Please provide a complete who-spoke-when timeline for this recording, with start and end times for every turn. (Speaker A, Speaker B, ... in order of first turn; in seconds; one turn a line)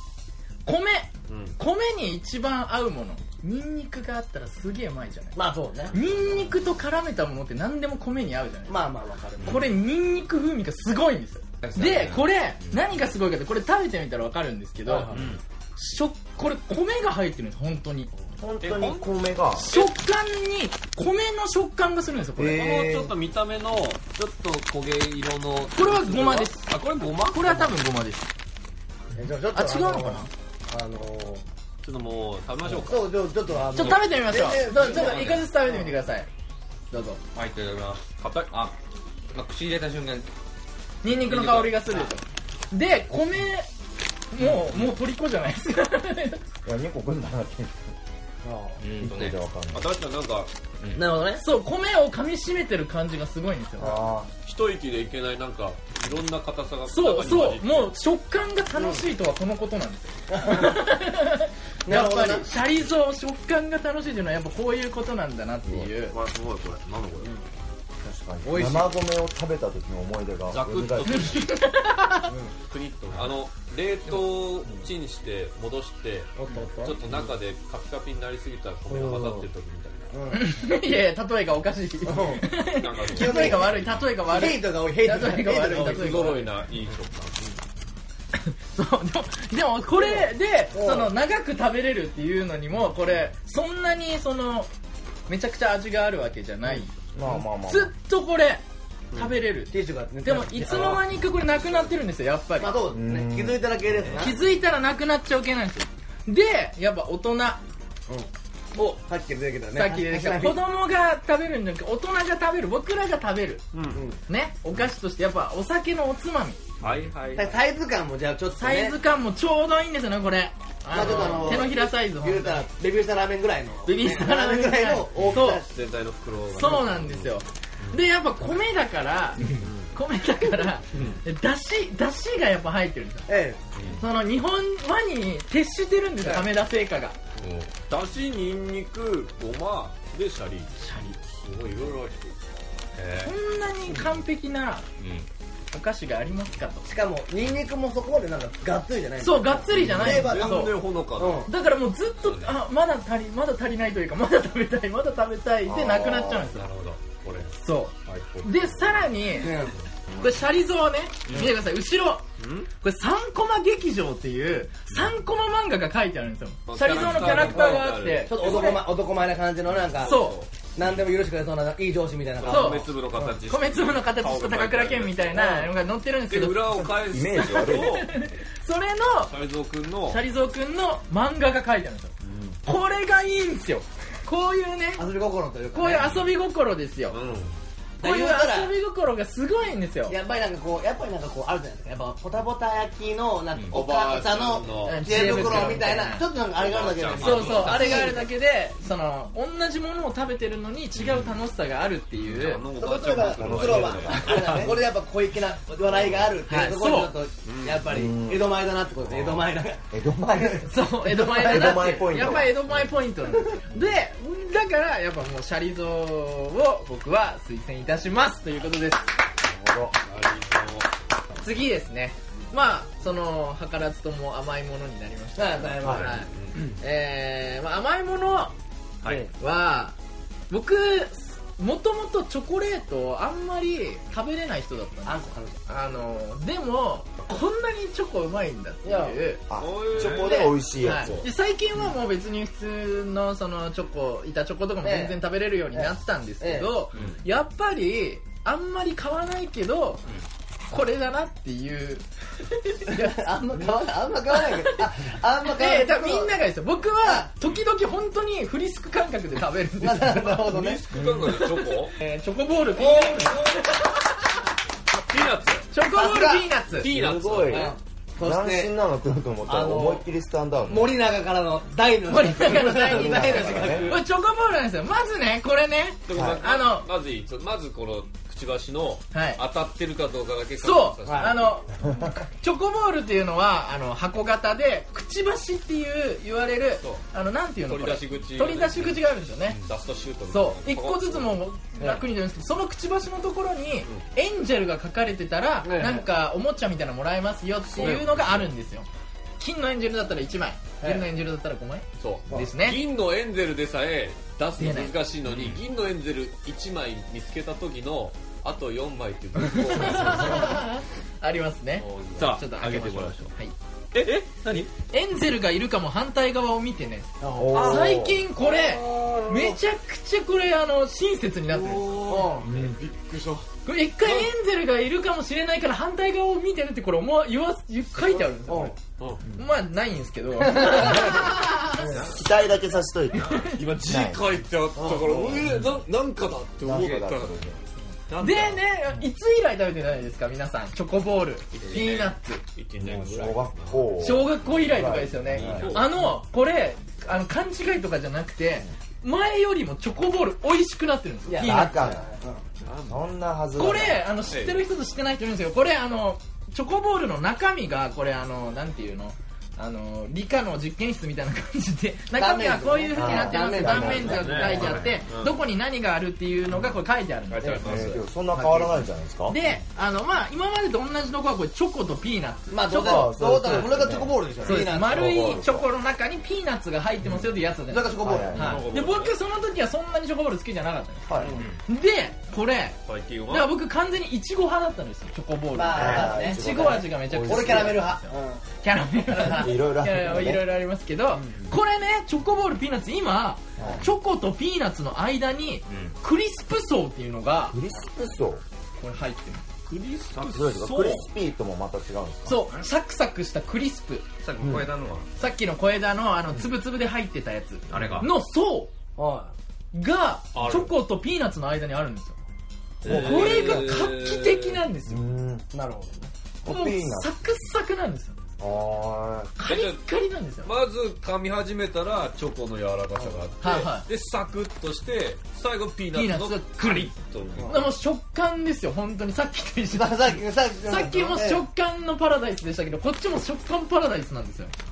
Speaker A: 0.6-5.4
Speaker B: 1.3-1.5
Speaker C: 5.3-6.0
Speaker A: 5.9-8.8
Speaker C: 8.7-9.7
Speaker A: 9.4-15.1
Speaker D: 11.6-12.8
Speaker C: 14.8-15.3
Speaker D: 15.0-15.4
Speaker A: 15.8-18.1
Speaker E: 18.4-19.7
Speaker B: 18.6-19.1
Speaker A: 19.6-22.7
Speaker B: 19.6-19.9
Speaker E: 22.4-23.1
Speaker B: 22.5-27.7
Speaker A: 25.7-26.7
Speaker A: 27.3-28.3
Speaker C: 29.1-31.4
Speaker A: 29.5-30.3
Speaker B: 31.8-33.1
Speaker C: 32.8-35.3
Speaker A: 33.7-36.3
Speaker D: 33.7-34.0
Speaker D: 34.6-35.5
Speaker A: 36.9-37.2
Speaker D: 37.3-38.7
Speaker B: 38.2-38.5
Speaker D: 39.3-40.3
Speaker A: 41.0-43.7
Speaker D: 41.0-41.9
Speaker A: 44.3-46.4
Speaker D: 44.5-44.9
Speaker E: 46.6-47.9
Speaker C: 48.4-48.8
Speaker D: 48.8-49.4
Speaker E: 49.0-49.9
Speaker B: 49.7-50.5
Speaker D: 50.8-51.2
Speaker C: 50.9-51.4
Speaker A: 51.4-54.0
Speaker E: 53.8-54.3
Speaker B: 54.4-57.9
Speaker A: 56.9-66.2
Speaker C: 58.8-59.0
Speaker C: 60.3-60.8
Speaker C: 61.9-62.5
Speaker B: 66.1-67.3
Speaker E: 68.0-71.4
Speaker C: 68.4-69.0
Speaker B: 70.5-71.7
Speaker A: 71.1-72.3
Speaker C: 72.3-72.5
Speaker B: 72.7-80.2
Speaker C: 76.3-77.0
Speaker C: 78.9-79.4
Speaker C: 80.1-80.5
Speaker A: 80.3-86.5
Speaker C: 82.0-82.5
Speaker B: 82.7-83.6
Speaker C: 83.0-86.3
Speaker D: 83.7-84.0
Speaker B: 85.7-87.6
Speaker A: 88.3-94.7
Speaker C: 89.9-91.1
Speaker A: 95.3-96.9
Speaker E: 97.1-97.9
Speaker A: 97.6-102.8
Speaker C: 99.2-101.0
Speaker B: 101.5-101.9
Speaker C: 102.6-104.4
Speaker E: 102.9-104.2
Speaker A: 104.1-107.6
Speaker C: 108.1-110.6
Speaker A: 109.7-113.6
Speaker B: 113.7-114.0
Speaker C: 113.9-114.2
Speaker A: 114.3-116.6
Speaker B: 116.8-117.6
Speaker C: 117.3-119.0
Speaker A: 118.6-122.7
Speaker C: 120.9-125.7
Speaker B: 121.0-121.6
Speaker A: 123.8-125.6
Speaker B: 125.2-128.0
Speaker A: 126.5-133.3
Speaker B: 129.5-129.9
Speaker B: 130.9-131.2
Speaker C: 133.3-133.6
Speaker A: 134.0-137.2
Speaker C: 136.2-136.5
Speaker D: 137.4-137.7
Speaker B: 137.9-142.4
Speaker A: 140.8-141.2
Speaker B: 142.9-143.3
Speaker A: 143.2-144.9
Speaker D: 143.9-144.2
Speaker D: 145.0-145.3
Speaker A: 145.7-146.9
Speaker C: 146.8-151.5
Speaker A: 149.2-150.7
Speaker B: 150.0-151.5
Speaker A: 151.4-156.7
Speaker D: 152.2-152.6
Speaker E: 155.6-156.5
Speaker D: 156.5-157.0
Speaker B: 157.0-157.5
Speaker A: 157.6-159.6
Speaker B: 158.1-158.9
Speaker C: 159.3-159.8
Speaker A: 160.2-162.2
Speaker D: 161.3-161.6
Speaker B: 162.4-162.7
Speaker A: 162.8-168.9
Speaker B: 166.7-168.8
Speaker C: 167.0-170.2
Speaker B: 169.9-170.5
Speaker A: 170.0-170.4
Speaker C: 170.7-173.4
Speaker B: 172.4-175.7
Speaker A: 172.4-172.9
Speaker A: 173.5-176.9
Speaker B: 176.3-178.1
Speaker E: 177.0-178.1
Speaker A: 177.4-179.3
Speaker B: 179.3-180.2
Speaker A: 180.1-182.1
Speaker B: 182.2-182.6
Speaker A: 182.6-185.0
Speaker C: 185.0-186.3
Speaker A: 185.7-187.2
Speaker B: 187.1-187.5
Speaker C: 188.0-188.7
Speaker A: 188.0-190.2
Speaker C: 190.1-198.2
Speaker D: 193.5-193.8
Speaker B: 193.7-195.8
Speaker A: 194.8-196.3
Speaker B: 196.5-198.1
Speaker A: 197.2-202.6
Speaker D: 197.2-198.0
Speaker D: 201.0-201.4
Speaker B: 202.2-204.8
Speaker C: 202.8-212.4
Speaker E: 203.0-204.7
Speaker D: 203.2-204.7
Speaker B: 205.9-206.2
Speaker A: 206.4-207.1
Speaker B: 207.4-207.9
Speaker E: 207.8-208.6
Speaker B: 209.1-209.5
Speaker E: 209.9-212.6
Speaker A: 210.6-219.1
Speaker C: 213.3-213.6
Speaker E: 219.4-220.0
Speaker B: 220.0-220.9
Speaker A: 221.4-228.5
Speaker C: 225.3-226.3
Speaker E: 225.8-226.1
Speaker B: 225.9-226.5
Speaker A: 229.4-229.9
Speaker A: 230.5-239.4
Speaker C: 235.0-235.6
Speaker C: 238.8-239.2
Speaker E: 239.5-241.2
Speaker B: 239.6-241.2
Speaker A: 240.0-250.1
Speaker C: 244.8-245.2
Speaker C: 245.7-246.8
Speaker D: 246.9-247.2
Speaker A: 250.7-253.7
Speaker C: 252.9-256.4
Speaker A: 254.3-254.8
Speaker A: 255.4-260.5
Speaker C: 257.0-257.3
Speaker C: 259.8-260.8
Speaker B: 260.4-261.9
Speaker A: 261.3-264.4
Speaker C: 262.7-263.8
Speaker B: 264.9-265.7
Speaker A: 265.7-266.9
Speaker C: 265.9-266.5
Speaker B: 266.7-267.7
Speaker E: 266.8-270.9
Speaker C: 267.5-268.7
Speaker C: 269.4-270.1
Speaker C: 270.6-274.0
Speaker A: 272.1-276.9
Speaker E: 272.8-274.0
Speaker B: 276.1-281.6
Speaker E: 276.1-276.4
Speaker A: 279.1-279.4
Speaker A: 280.6-289.6
Speaker C: 281.1-281.4
Speaker E: 281.8-282.1
Speaker B: 287.6-291.4
Speaker A: 290.3-298.9
Speaker C: 295.6-296.1
Speaker B: 295.7-295.9
Speaker B: 297.7-298.5
Speaker A: 299.4-302.8
Speaker C: 300.8-301.1
Speaker B: 302.0-310.6
Speaker A: 304.6-305.0
Speaker D: 305.3-305.6
Speaker A: 309.6-313.5
Speaker B: 311.8-313.3
Speaker B: 313.9-314.7
Speaker A: 314.8-322.2
Speaker C: 317.2-318.0
Speaker E: 317.3-318.2
Speaker B: 317.6-317.8
Speaker B: 318.4-319.6
Speaker B: 321.5-323.4
Speaker C: 322.0-322.6
Speaker A: 323.6-328.8
Speaker B: 324.0-324.3
Speaker C: 328.4-328.8
Speaker B: 329.0-329.2
Speaker A: 329.3-331.9
Speaker C: 330.5-332.1
Speaker D: 331.9-333.6
Speaker E: 332.1-334.3
Speaker A: 333.2-333.6
Speaker B: 333.4-337.5
Speaker C: 334.8-335.4
Speaker E: 335.0-335.7
Speaker E: 336.6-337.6
Speaker B: 338.1-338.6
Speaker A: 338.2-342.4
Speaker B: 341.5-344.2
Speaker D: 342.8-343.1
Speaker E: 342.9-345.7
Speaker A: 344.0-352.0
Speaker B: 345.3-346.0
Speaker D: 345.4-345.8
Speaker C: 351.3-352.4
Speaker E: 351.4-352.1
Speaker B: 352.6-353.1
Speaker E: 352.9-354.1
Speaker A: 353.6-368.7
Speaker B: 354.3-354.6
Speaker C: 362.1-364.8
Speaker E: 362.9-364.8
Speaker B: 363.9-365.4
Speaker D: 364.5-365.0
Speaker B: 367.3-368.0
Speaker C: 367.4-367.8
Speaker E: 367.6-369.4
Speaker A: 369.2-373.7
Speaker C: 372.5-375.4
Speaker E: 372.7-375.7
Speaker A: 374.4-381.1
Speaker C: 377.7-378.6
Speaker E: 378.0-378.6
Speaker B: 378.3-379.1
Speaker E: 381.1-381.4
Speaker B: 381.2-381.4
Speaker D: 381.3-381.6
Speaker A: 381.6-397.6
Speaker B: 382.9-383.5
Speaker C: 385.5-388.4
Speaker E: 385.7-387.8
Speaker E: 389.1-390.4
Speaker E: 393.6-393.9
Speaker C: 393.6-393.8
Speaker D: 395.7-396.0
Speaker E: 397.5-398.4
Speaker A: 398.8-399.4
Speaker B: 399.7-401.1
Speaker E: 400.2-402.4
Speaker A: 402.2-404.1
Speaker D: 404.2-405.1
Speaker A: 405.2-408.7
Speaker D: 407.7-408.1
Speaker E: 407.7-408.0
Speaker C: 408.9-409.3
Speaker A: 409.7-412.2
Speaker B: 410.3-410.7
Speaker B: 412.8-414.6
Speaker E: 412.8-413.9
Speaker A: 412.8-415.0
Speaker E: 414.9-415.4
Speaker C: 415.5-416.1
Speaker E: 416.4-417.1
Speaker A: 416.4-418.2
Speaker E: 418.4-419.3
Speaker A: 419.4-420.5
Speaker B: 419.5-419.8
Speaker B: 420.4-427.7
Speaker A: 423.4-423.9
Speaker A: 425.9-426.9
Speaker C: 427.4-427.6
Speaker A: 427.4-434.5
Speaker C: 429.7-431.4